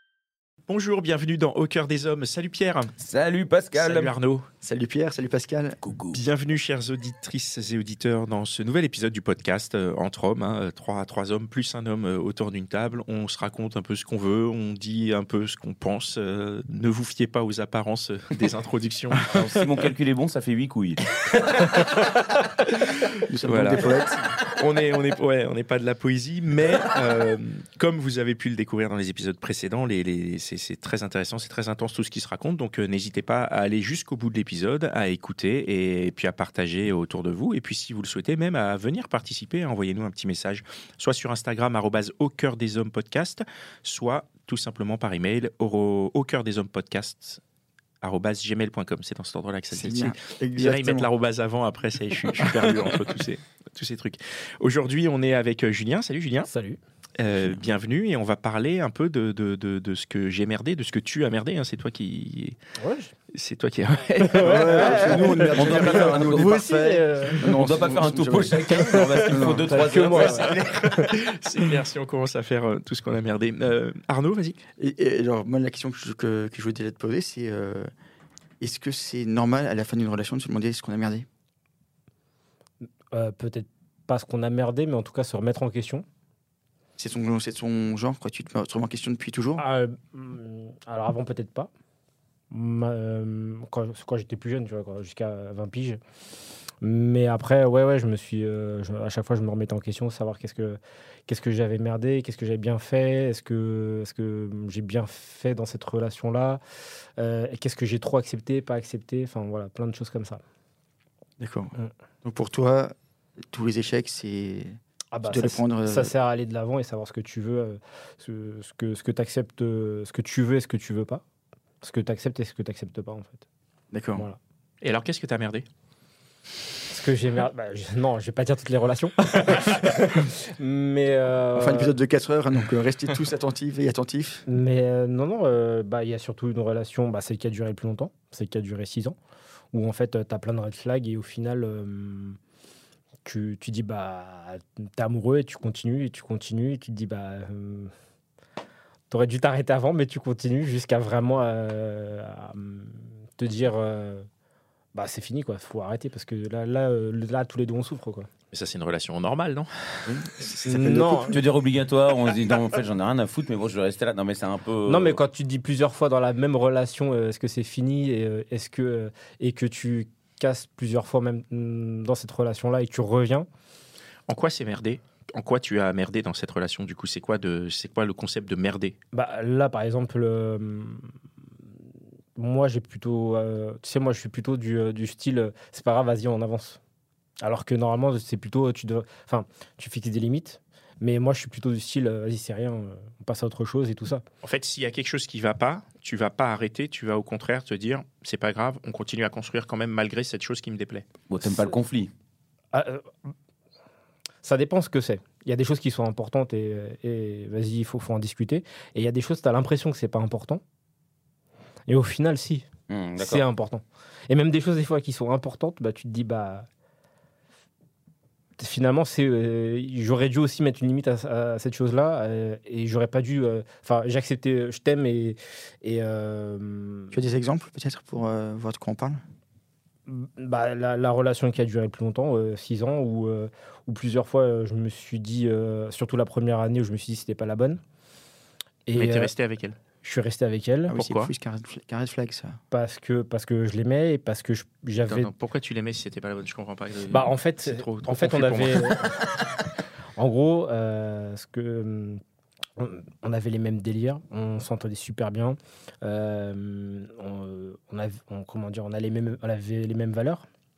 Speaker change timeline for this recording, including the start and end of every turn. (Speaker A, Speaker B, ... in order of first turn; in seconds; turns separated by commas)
Speaker A: 0.7-2.9, Speaker B: 3.0-4.2, Speaker A: 3.8-4.5, Speaker C: 4.6-5.8, Speaker B: 5.8-6.2, Speaker A: 6.1-19.7, Speaker B: 19.3-21.0, Speaker A: 21.3-47.4, Speaker C: 23.3-24.3, Speaker A: 48.0-56.5, Speaker C: 49.7-51.1, Speaker D: 56.5-56.8, Speaker A: 57.2-62.6, Speaker D: 62.8-63.1, Speaker A: 63.3-65.0, Speaker D: 64.3-67.4, Speaker C: 64.4-70.5, Speaker B: 64.8-66.6, Speaker B: 67.4-70.7, Speaker D: 68.8-71.1, Speaker A: 70.2-74.6, Speaker C: 74.8-77.9, Speaker C: 78.6-81.3, Speaker D: 83.1-86.0, Speaker C: 87.0-89.6, Speaker D: 89.6-91.7, Speaker D: 92.5-96.0, Speaker D: 96.8-106.6, Speaker D: 107.2-110.4, Speaker C: 111.4-111.7, Speaker C: 112.2-113.0, Speaker C: 113.5-116.1, Speaker D: 115.1-121.2, Speaker D: 121.8-123.4, Speaker C: 123.9-124.3, Speaker A: 124.8-125.7, Speaker D: 126.9-132.0, Speaker C: 131.6-134.4, Speaker D: 134.5-139.2, Speaker D: 139.7-142.4, Speaker D: 143.2-147.9, Speaker D: 149.1-154.3, Speaker D: 154.9-158.3, Speaker A: 158.5-160.6, Speaker B: 160.1-165.2, Speaker D: 160.7-161.4, Speaker D: 164.9-173.5, Speaker A: 174.3-179.0, Speaker D: 179.1-181.1, Speaker D: 182.4-186.8, Speaker D: 187.4-194.2, Speaker A: 194.4-201.1, Speaker B: 201.3-202.1, Speaker D: 202.7-203.1, Speaker D: 204.4-210.6, Speaker D: 211.9-212.7, Speaker B: 212.9-213.5, Speaker D: 213.2-216.7, Speaker D: 218.6-227.2, Speaker C: 227.1-229.2, Speaker D: 230.1-237.8, Speaker D: 238.9-239.3, Speaker A: 238.9-239.8, Speaker D: 240.0-240.9, Speaker C: 240.9-242.6, Speaker A: 240.9-241.3, Speaker D: 242.7-245.3, Speaker A: 245.1-249.1, Speaker D: 247.1-249.2, Speaker D: 250.2-252.2, Speaker D: 252.8-260.4